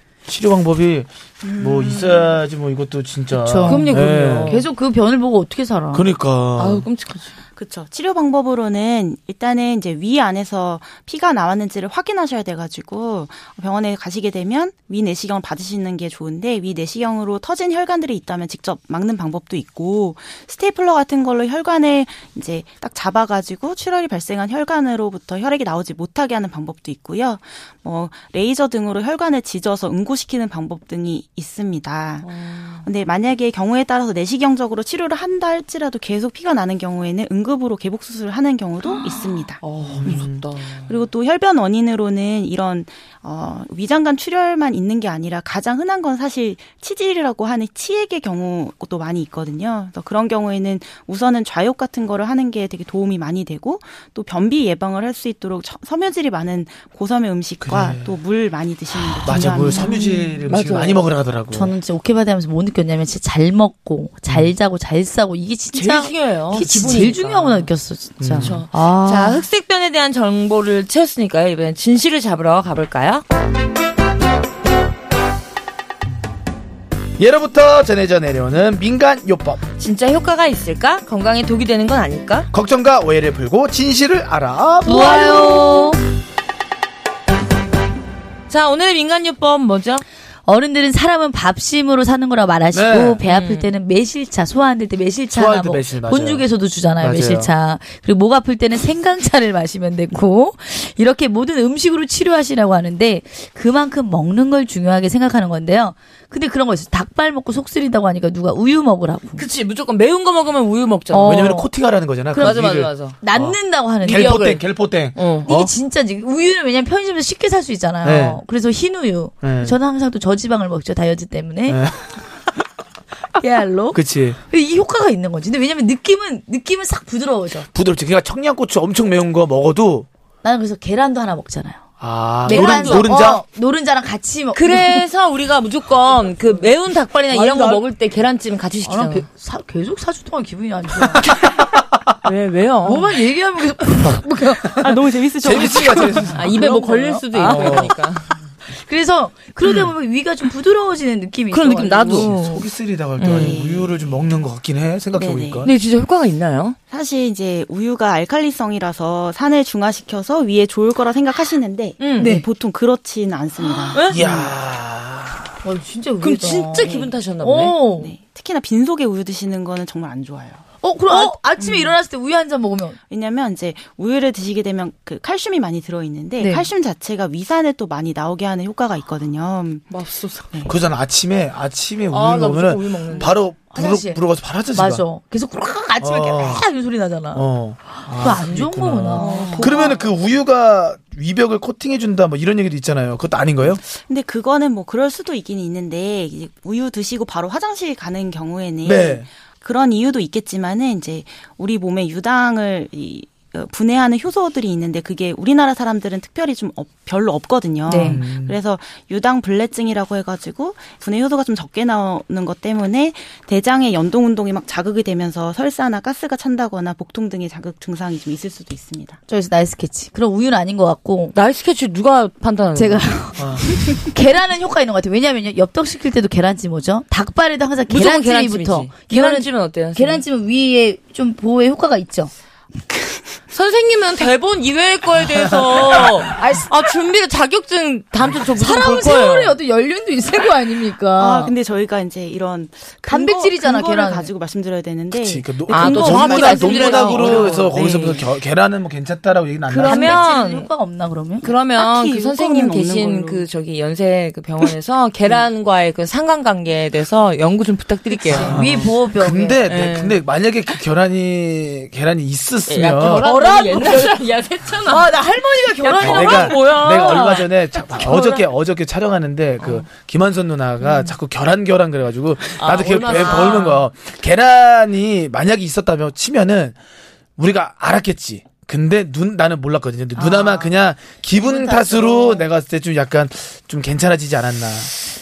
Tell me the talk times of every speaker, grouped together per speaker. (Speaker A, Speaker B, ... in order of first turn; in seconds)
Speaker A: 0.3-4.6, 5.9-6.8, 39.8-40.4, 57.6-58.2, 59.2-61.7, 68.2-68.6, 77.2-79.6, 82.5-85.2, 92.7-93.2, 95.3-96.5, 97.0-97.5, 111.2-115.7, 118.0-118.4, 119.4-119.8, 121.7-122.0, 123.9-124.4, 127.7-130.1, 132.0-133.4, 141.1-142.1, 145.4-146.4, 147.4-147.9, 152.1-155.7, 164.1-165.5, 180.6-185.0, 186.0-186.6, 187.3-193.8, 198.8-199.2, 208.0-208.6, 223.4-223.6, 245.1-250.2, 258.3-263.3, 266.0-276.8, 277.4-284.9
Speaker B: 1.4-2.4, 7.5-40.3, 40.9-60.2, 144.8-146.3, 153.2-154.1, 155.1-155.7, 156.9-164.4, 166.8-167.1, 168.0-170.6, 171.2-171.9, 173.1-179.9, 189.2-190.1, 193.8-219.2, 241.2-248.2, 251.8-253.4
Speaker C: 3.3-6.1, 59.4-60.5, 61.5-69.5, 84.8-86.0, 90.5-109.4, 111.1-111.7, 112.3-114.6, 115.5-121.9, 123.3-127.7, 130.4-131.8, 132.4-135.0, 137.3-137.8, 138.8-141.3, 142.8-147.9, 148.7-152.3, 162.2-162.4, 165.6-168.1, 170.8-173.0, 176.4-176.7, 183.7-184.2, 184.7-189.6, 207.8-208.2, 219.3-221.3, 222.7-232.3, 236.3-236.7, 238.5-241.5, 243.1-244.3, 249.8-251.5, 258.1-259.6, 263.1-264.2, 264.9-267.4, 268.0-268.4, 280.1-280.7, 281.3-282.5
Speaker D: 3.6-4.7, 6.6-7.3, 32.2-32.9, 38.9-41.0, 60.5-61.1, 65.7-67.7, 68.4-73.2, 79.8-82.5, 84.9-85.9, 88.5-90.0, 93.2-93.7, 109.4-111.5, 112.4-113.2, 114.0-114.6, 115.1-115.5, 132.4-133.2, 134.5-139.2, 142.2-143.1, 146.3-148.4, 151.5-152.7, 153.2-153.6, 155.6-156.8, 162.0-162.3, 163.6-164.2, 166.2-167.8, 179.9-180.5, 182.1-183.3, 189.1-189.9, 221.3-223.2, 227.9-230.2, 233.5-239.6, 245.7-248.2, 249.7-250.7, 251.4-258.6, 259.7-260.2, 262.7-265.1, 265.8-268.3, 272.6-273.8